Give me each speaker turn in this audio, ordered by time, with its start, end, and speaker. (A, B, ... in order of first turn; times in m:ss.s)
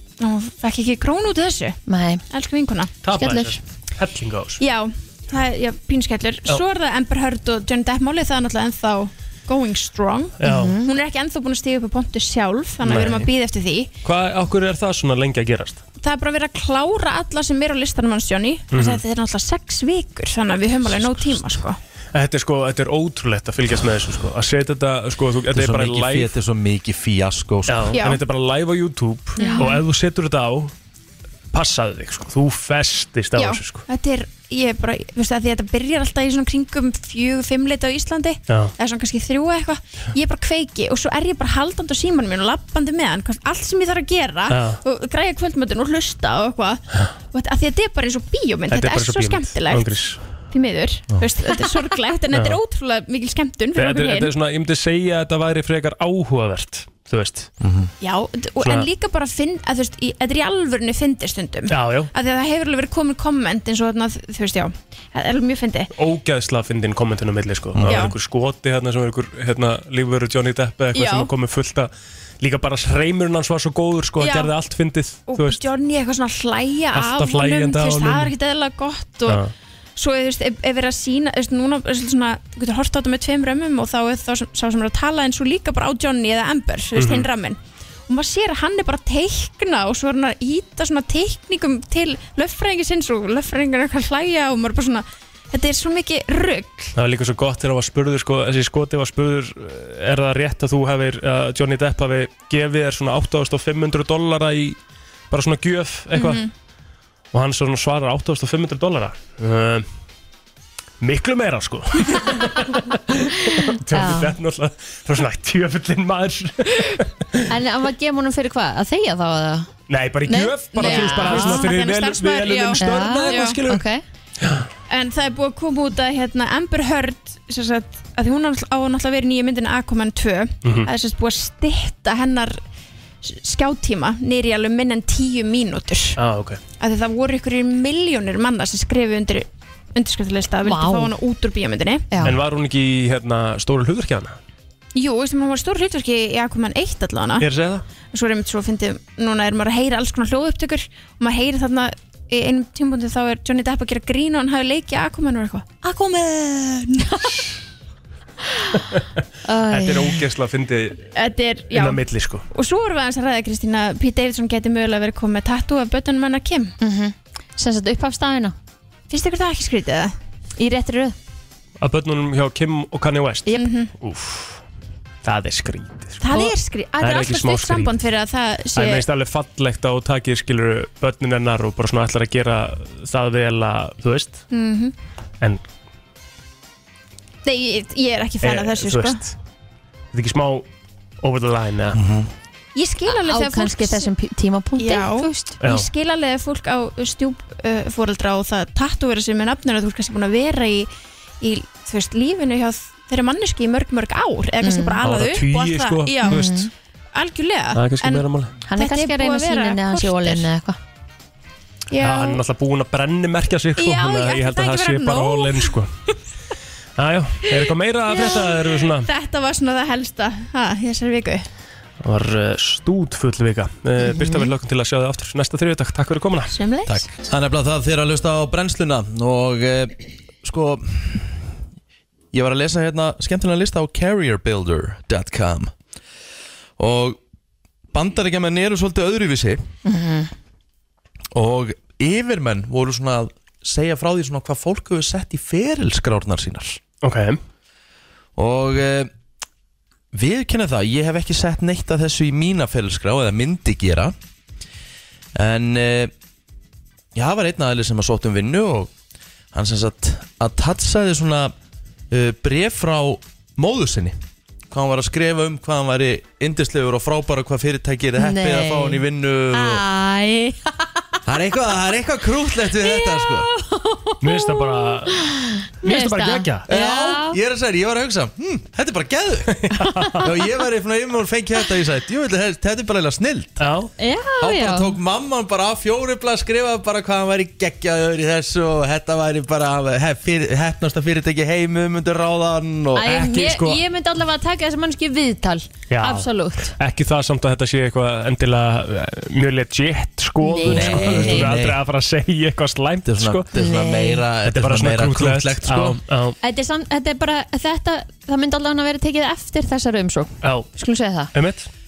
0:00.2-0:03.0 A
0:01.8-0:02.2 B
0:03.0-0:04.6 C
0:03.1-0:03.6 B
0:04.6-0:13.9 A
0:10.4-0:10.7 C
0:10.4-0:10.9 B
0:12.8-0:13.3 C
0:14.0-0:15.8 C
0:16.0-0:21.8 A
0:18.7-0:19.0 C
0:22.1-0:26.3 C
0:25.5-0:27.9 D
0:27.7-0:30.7 C
0:27.9-0:28.2 A
0:29.4-0:29.7 B
0:29.4-0:29.8 A
0:31.5-0:33.8 C
0:33.4-0:54.3 A
0:44.5-0:44.8 C
0:48.7-0:50.2 C
0:52.3-0:52.6 C
0:53.7-0:57.5 C
0:57.6-0:57.9 D
0:58.0-1:05.9 A
0:58.6-0:58.9 C
1:01.7-1:02.1 C
1:05.9-1:15.6 C
1:07.7-1:08.1 D
1:07.8-1:08.1 A
1:10.9-1:11.3 A
1:14.2-1:14.5 A
1:15.3-1:19.4 A
1:16.9-1:18.3 C
1:20.0-1:36.9 A
1:26.9-1:27.3 C
1:37.0-1:44.8 C
1:45.3-1:46.4 C
1:46.1-1:46.5 A
1:47.3-1:49.8 C
1:51.0-1:57.4 C
1:53.6-1:54.3 B
1:57.5-1:59.7 B
1:59.9-2:03.8 C
2:00.3-2:03.6 A
2:00.3-2:01.7 B
2:02.8-2:04.0 B
2:04.4-2:04.6 C
2:04.9-2:12.6 A
2:10.6-2:10.9 C
2:13.2-2:16.2 A
2:16.2-2:16.6 C
2:16.8-2:22.1 A
2:20.6-2:21.2 B
2:22.2-2:24.4 C
2:24.9-2:27.5 A
2:27.4-2:27.8 C
2:28.1-2:35.8 A
2:35.9-2:37.4 B
2:39.4-2:40.2 B
2:39.7-2:41.0 C
2:41.1-2:46.7 A
2:41.7-2:42.4 C
2:46.8-2:48.5 B
2:49.1-2:50.1 A
2:50.6-2:51.2 B
2:51.8-2:54.6 C
2:53.5-2:53.9 A
2:55.2-2:57.9 C
2:56.2-2:59.0 A
2:58.7-3:04.4 C
3:04.5-3:04.9 A
3:07.4-3:09.2 A
3:08.4-3:09.3 C
3:10.1-3:10.7 C
3:11.2-3:12.0 C
3:11.9-3:12.3 D
3:12.7-3:14.1 A
3:13.1-3:15.6 B
3:14.8-3:20.9 A
3:15.6-3:15.9 C
3:21.4-3:26.4 A
3:24.6-3:25.0 B
3:25.0-3:26.7 C
3:26.2-3:26.7 B
3:27.1-3:30.5 A
3:27.7-3:28.6 C
3:28.6-3:30.8 B
3:31.9-3:32.4 A
3:32.0-3:35.9 C
3:33.8-3:36.1 A
3:37.0-3:39.1 C
3:37.4-3:41.4 A
3:42.0-3:46.6 C
3:44.1-3:44.5 B
3:46.6-3:47.0 A
3:46.9-3:51.5 D
3:52.3-3:55.7 D
3:56.8-3:57.2 D
3:57.9-3:59.6 D
3:59.8-4:00.3 B
4:01.3-4:06.8 D
4:07.0-4:07.4 C
4:08.4-4:09.1 D
4:10.1-4:14.1 D
4:15.3-4:16.1 D
4:17.1-4:18.9 D
4:19.5-4:21.5 D
4:22.1-4:24.2 D
4:24.7-4:29.8 D
4:28.2-4:30.9 B
4:31.2-4:33.5 D
4:32.8-4:37.4 B
4:34.2-4:35.1 C
4:35.8-4:36.6 C
4:36.7-4:39.7 D
4:39.6-4:40.2 C
4:39.8-4:40.1 B
4:40.2-4:43.6 D
4:43.6-4:43.9 C
4:44.0-4:44.9 B
4:44.4-4:53.1 D
4:52.9-4:56.7 B
4:53.0-4:53.8 C
4:55.9-5:03.4 C
5:00.4-5:01.5 B
5:00.6-5:01.8 D
5:03.0-5:06.0 D
5:03.5-5:04.2 B
5:04.4-5:06.4 C
5:06.4-5:11.3 B
5:10.4-5:10.7 C
5:11.3-5:11.7 C